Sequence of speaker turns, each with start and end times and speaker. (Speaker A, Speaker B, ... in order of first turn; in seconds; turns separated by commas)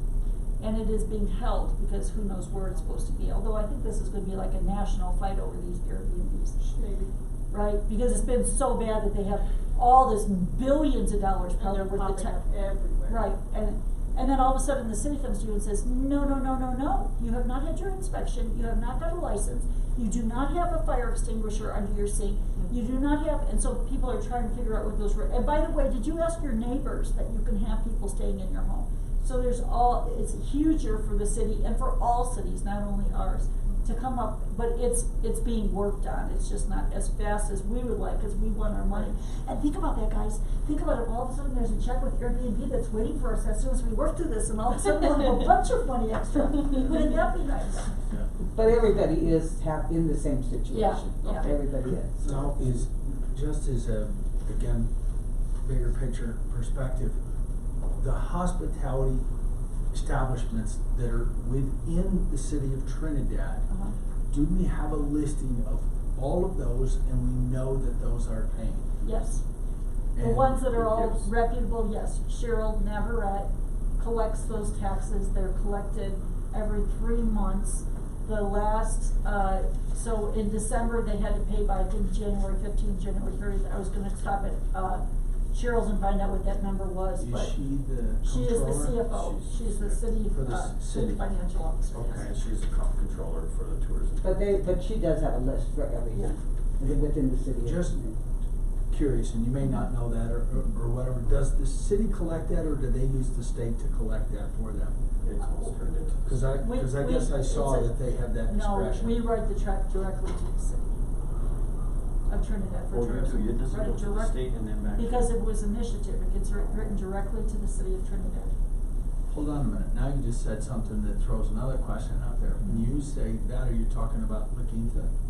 Speaker A: 0.6-6.6, Speaker B: 6.6-7.1, Speaker A: 7.5-12.4, Speaker B: 11.6-13.3, Speaker A: 13.1-47.9, Speaker C: 48.5-52.8, Speaker A: 50.7-51.5, Speaker D: 52.2-54.9, Speaker D: 55.6-57.2, Speaker D: 58.0-59.2, Speaker D: 59.9-63.7, Speaker A: 63.7-64.0, Speaker D: 64.3-68.9, Speaker A: 69.0-69.4, Speaker D: 70.1-70.7, Speaker A: 70.2-87.6, Speaker E: 70.6-71.3, Speaker D: 87.2-89.5, Speaker A: 88.2-92.3, Speaker D: 90.2-91.2, Speaker E: 91.9-94.4, Speaker C: 94.2-98.2, Speaker D: 97.6-98.0, Speaker D: 98.9-105.0, Speaker E: 105.2-106.5, Speaker A: 105.4-105.7, Speaker D: 106.2-109.3, Speaker A: 106.5-111.0, Speaker A: 112.3-118.5, Speaker E: 112.9-115.3, Speaker D: 119.3-125.1